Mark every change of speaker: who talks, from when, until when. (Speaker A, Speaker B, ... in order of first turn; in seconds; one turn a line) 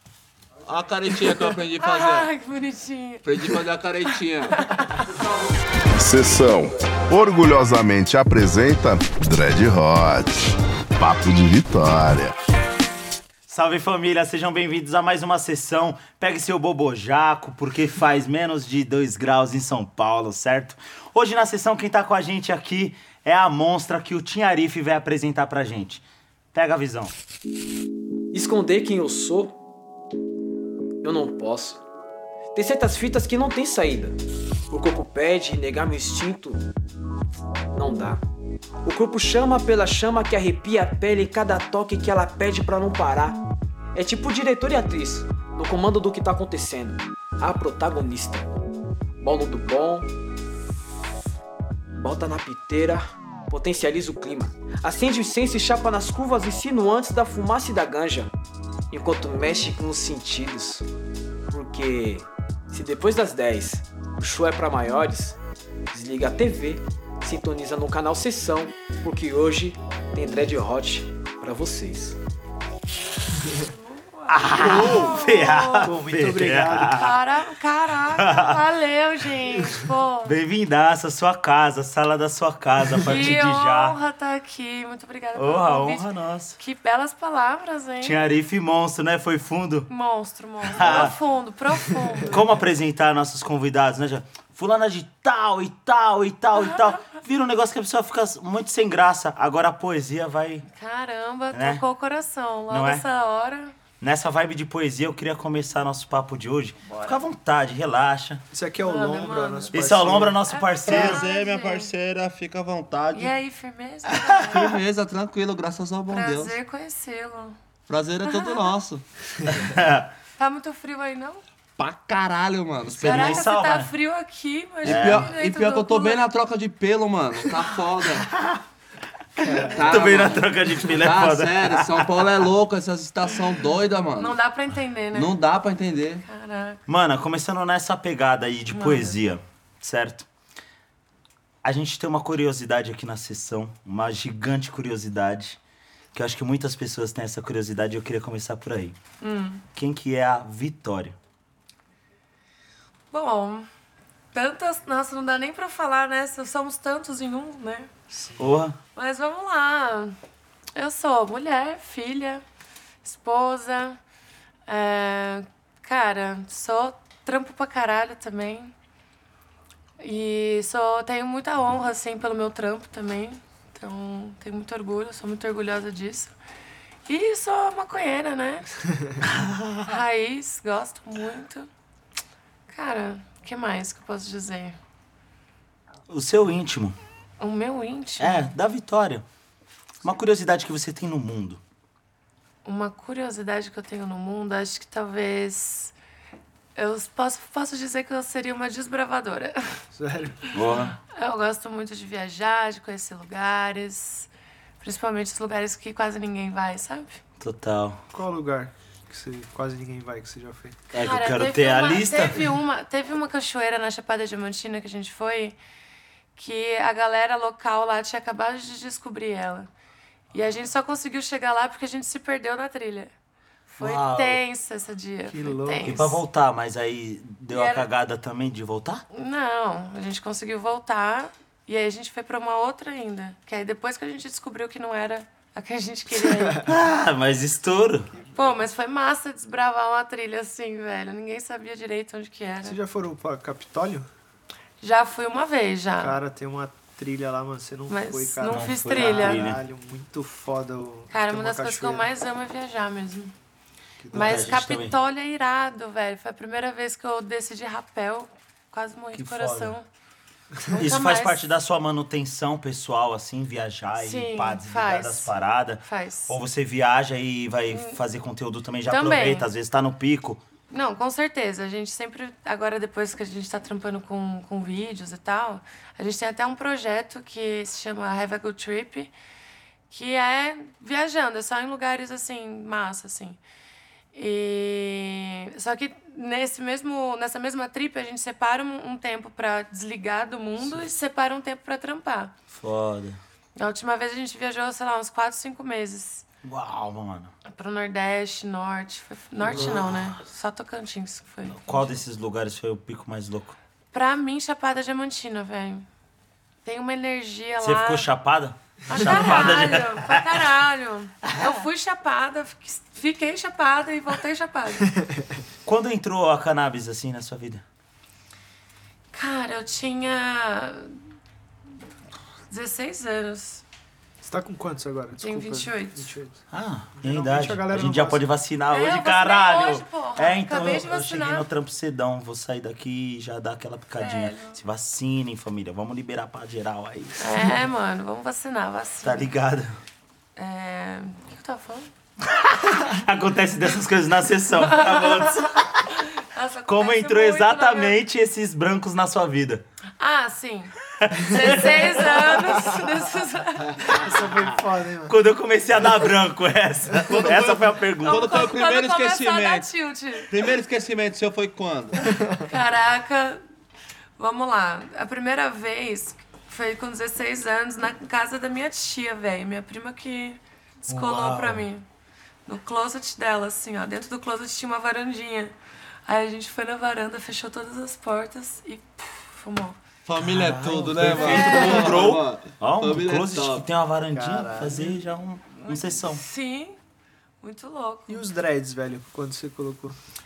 Speaker A: 0.7-2.3
Speaker B: 1.8-5.0
Speaker A: 3.2-4.8
Speaker C: 6.0-12.3
Speaker D: 13.5-26.0
Speaker D: 26.5-27.1
Speaker E: 28.3-29.6
Speaker E: 31.0-31.8
Speaker E: 32.5-34.2
Speaker E: 34.7-36.6
Speaker E: 37.7-38.2
Speaker E: 38.8-43.4
Speaker E: 44.0-48.5
Speaker E: 49.2-50.1
Speaker E: 52.0-58.3
Speaker E: 58.9-60.8
Speaker E: 61.5-65.4
Speaker E: 65.9-72.2
Speaker B: 73.5-75.9
Speaker D: 74.3-77.2
Speaker A: 74.6-75.2
Speaker F: 75.8-77.1
Speaker B: 76.9-80.3
Speaker D: 78.2-78.6
Speaker D: 80.2-84.0
Speaker B: 83.0-88.2
Speaker D: 85.3-86.6
Speaker D: 88.0-89.9
Speaker B: 89.9-92.4
Speaker D: 90.7-91.1
Speaker D: 92.3-100.7
Speaker B: 96.6-96.8
Speaker B: 100.7-103.8
Speaker D: 101.5-101.8
Speaker D: 102.7-103.0
Speaker D: 104.0-108.4
Speaker B: 106.9-107.2
Speaker F: 108.5-110.4
Speaker B: 108.8-109.8
Speaker D: 109.7-111.2
Speaker B: 110.5-111.9
Speaker A: 110.9-113.3
Speaker B: 113.1-114.8
Speaker A: 114.5-116.5
Speaker B: 116.1-117.6
Speaker A: 117.9-119.0
Speaker B: 118.2-118.7
Speaker D: 119.5-120.1
Speaker B: 120.4-121.4
Speaker A: 121.8-123.4
Speaker D: 123.0-123.9
Speaker B: 123.0-126.2
Speaker A: 124.8-128.3
Speaker D: 124.8-125.3
Speaker F: 129.4-130.2
Speaker D: 129.4-132.2
Speaker A: 129.7-134.4
Speaker B: 134.2-135.3
Speaker A: 135.1-136.2
Speaker B: 136.3-136.8
Speaker D: 136.9-140.3
Speaker B: 138.7-139.2
Speaker D: 141.6-145.6
Speaker D: 146.1-149.0
Speaker B: 149.2-149.6
Speaker D: 149.8-151.2
Speaker B: 153.1-153.7
Speaker B: 154.3-157.9
Speaker D: 158.4-158.8
Speaker B: 158.9-160.2
Speaker B: 160.8-162.4
Speaker B: 163.0-164.0
Speaker B: 164.7-168.7
Speaker B: 170.0-176.3
Speaker B: 177.1-178.7
Speaker D: 179.2-179.9
Speaker B: 179.8-181.7
Speaker B: 182.7-184.8
Speaker D: 186.1-187.0
Speaker B: 187.4-188.5
Speaker D: 188.2-189.2
Speaker D: 190.0-191.6
Speaker B: 192.7-195.9
Speaker B: 196.8-199.8
Speaker F: 199.9-200.7
Speaker D: 200.5-200.9
Speaker B: 201.0-204.3
Speaker B: 204.8-207.2
Speaker D: 207.4-208.0
Speaker F: 208.1-210.8
Speaker D: 210.9-212.5
Speaker B: 210.9-215.6
Speaker B: 216.3-219.7
Speaker B: 220.3-223.1
Speaker B: 223.7-226.2
Speaker D: 223.8-224.4
Speaker F: 225.2-226.0
Speaker D: 225.8-229.0
Speaker B: 227.5-227.9
Speaker B: 229.1-236.6
Speaker F: 236.3-236.7
Speaker D: 236.6-238.1
Speaker F: 238.1-238.6
Speaker B: 238.3-242.8
Speaker F: 242.6-244.1
Speaker B: 244.8-246.2
Speaker F: 246.0-252.1
Speaker B: 247.9-249.4
Speaker D: 248.4-249.6
Speaker B: 251.1-253.3
Speaker F: 254.0-254.6
Speaker B: 254.1-259.9
Speaker D: 254.1-255.0
Speaker D: 259.1-259.8
Speaker B: 260.7-261.4
Speaker D: 260.8-270.4
Speaker B: 264.0-265.3
Speaker B: 265.8-266.4
Speaker B: 267.7-268.0
Speaker B: 268.9-269.5
Speaker B: 270.7-279.1
Speaker B: 279.9-283.4
Speaker B: 284.1-292.3
Speaker D: 292.5-293.2
Speaker B: 293.6-296.2
Speaker D: 296.4-297.3
Speaker B: 297.4-301.9
Speaker F: 299.5-299.8
Speaker D: 299.5-300.2
Speaker D: 301.5-303.6
Speaker B: 303.9-305.9
Speaker B: 306.6-308.1
Speaker D: 307.6-310.4
Speaker B: 308.9-314.9
Speaker D: 311.2-311.6
Speaker F: 315.0-315.3
Speaker D: 315.6-317.6
Speaker B: 319.1-321.0
Speaker B: 322.5-323.6
Speaker F: 324.2-326.4
Speaker B: 325.2-326.1
Speaker D: 326.5-337.6
Speaker F: 327.0-328.3
Speaker B: 328.7-331.5
Speaker B: 334.0-334.6
Speaker B: 337.2-339.3
Speaker D: 339.0-339.8
Speaker B: 340.4-341.9
Speaker D: 342.3-345.8
Speaker B: 344.6-348.0
Speaker D: 346.7-349.6
Speaker B: 350.0-354.0
Speaker D: 351.0-352.7
Speaker F: 353.8-355.1
Speaker D: 355.1-358.4
Speaker A: 357.1-359.7
Speaker B: 358.0-360.3
Speaker A: 360.3-362.0
Speaker B: 362.4-363.4
Speaker B: 364.2-371.9
Speaker D: 370.9-371.6
Speaker B: 372.5-375.5
Speaker B: 376.1-379.8
Speaker A: 380.1-383.7
Speaker D: 380.2-386.2
Speaker B: 381.2-382.0
Speaker F: 384.1-385.0
Speaker B: 385.6-386.8
Speaker B: 387.4-388.2
Speaker F: 388.1-390.0